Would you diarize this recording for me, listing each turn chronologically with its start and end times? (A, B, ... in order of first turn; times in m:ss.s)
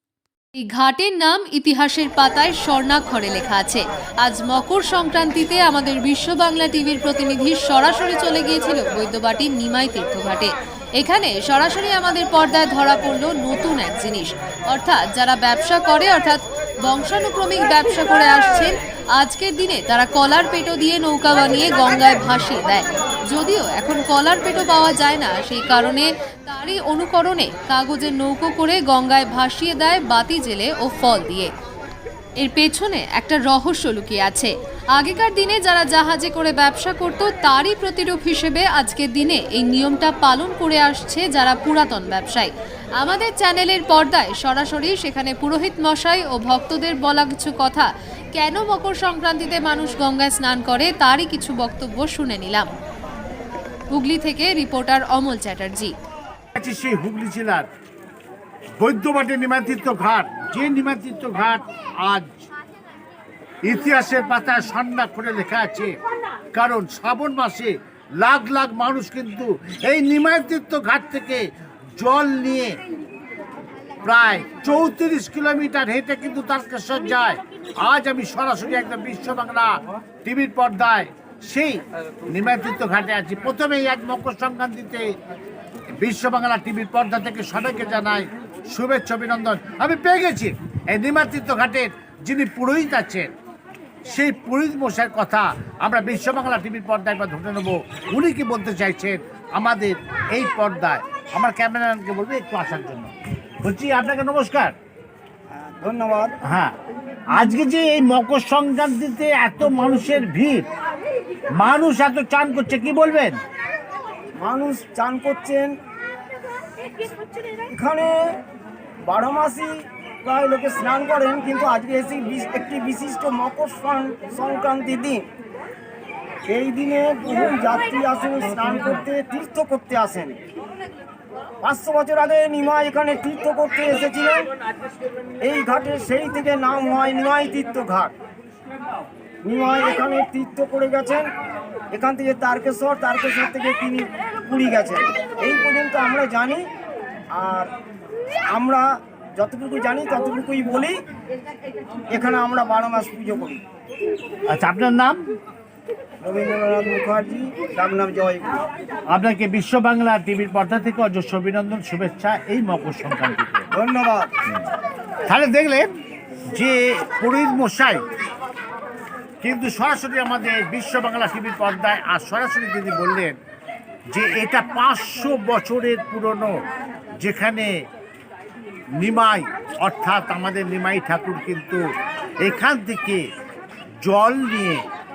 0:00.6-0:31.5 A
0:32.4-0:52.7 A
0:53.9-0:55.9 A
0:56.6-0:57.7 B
0:58.8-1:02.3 B
1:03.6-1:06.0 B
1:06.5-1:12.8 B
1:14.0-1:25.2 B
1:26.0-1:33.3 B
1:34.0-1:43.1 B
1:43.6-1:44.7 B
1:45.6-1:46.3 C
1:46.4-1:46.8 B
1:47.3-1:50.7 B
1:51.5-1:53.4 B
1:54.4-1:55.7 C
1:57.5-1:58.4 C
1:59.1-2:05.3 C
2:06.5-2:10.4 C
2:11.6-2:14.5 C
2:15.4-2:18.2 C
2:19.4-2:21.3 C
2:21.9-2:26.7 C
2:27.3-2:27.7 C
2:28.5-2:31.0 C
2:32.1-2:33.6 C
2:34.5-2:35.2 B
2:36.2-2:38.6 C
2:39.1-2:43.7 B
2:43.7-2:44.3 C
2:45.3-2:45.9 B
2:46.4-2:48.0 B
2:49.4-2:53.4 B
2:54.1-2:56.6 B
2:57.2-2:57.7 B
2:59.0-3:01.8 B
3:02.4-3:03.3 B
3:04.0-3:04.9 B